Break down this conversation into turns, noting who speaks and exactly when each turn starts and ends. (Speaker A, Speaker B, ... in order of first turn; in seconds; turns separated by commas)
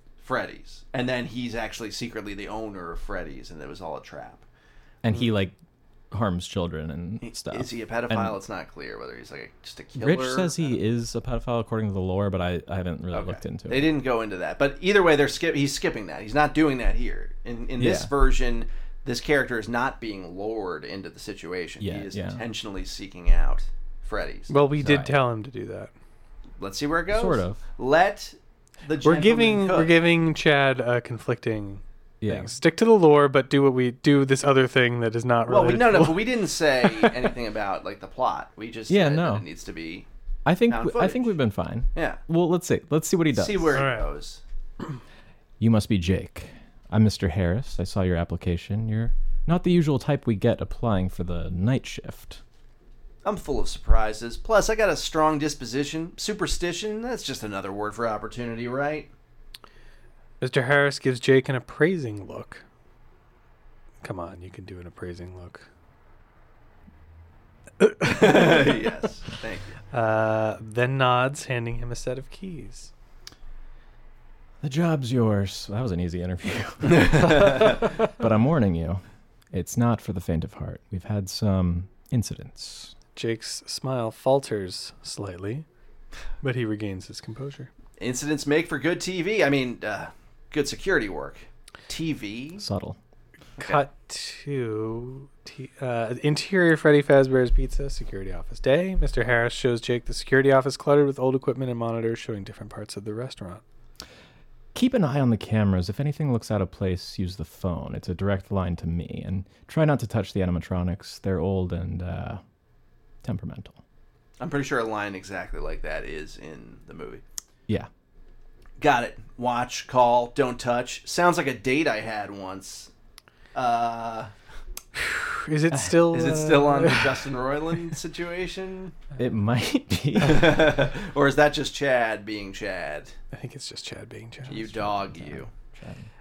Speaker A: 0.2-4.4, Speaker B: 5.0-5.5, Speaker B: 6.1-8.4, Speaker A: 7.2-10.7, Speaker B: 9.9-13.9, Speaker A: 13.1-24.5, Speaker B: 17.8-18.1, Speaker B: 21.8-22.4, Speaker C: 24.5-25.9, Speaker B: 24.8-25.1, Speaker A: 26.6-29.9, Speaker B: 27.1-27.6, Speaker C: 29.0-37.1, Speaker B: 32.2-32.5, Speaker A: 35.5-40.1, Speaker B: 38.9-39.4, Speaker B: 40.5-43.8, Speaker A: 40.7-41.3, Speaker A: 41.9-42.2, Speaker A: 43.3-44.4, Speaker C: 43.7-44.0, Speaker B: 45.6-52.4, Speaker A: 53.2-59.1, Speaker C: 60.4-62.6, Speaker C: 64.0-65.7, Speaker C: 67.8-68.7, Speaker A: 68.0-69.8, Speaker C: 69.9-72.9, Speaker B: 74.6-82.9, Speaker A: 76.9-77.8, Speaker C: 83.2-85.7, Speaker C: 86.4-87.7, Speaker A: 88.0-92.6, Speaker B: 92.6-93.0, Speaker C: 93.6-103.6, Speaker B: 104.7-112.4, Speaker B: 113.2-113.8, Speaker A: 114.4-117.2, Speaker A: 118.8-122.9, Speaker A: 123.5-124.3, Speaker C: 125.0-127.3, Speaker A: 126.1-129.0, Speaker B: 129.2-130.8, Speaker A: 130.2-133.1, Speaker C: 133.3-134.7, Speaker A: 134.5-135.5, Speaker B: 134.6-136.1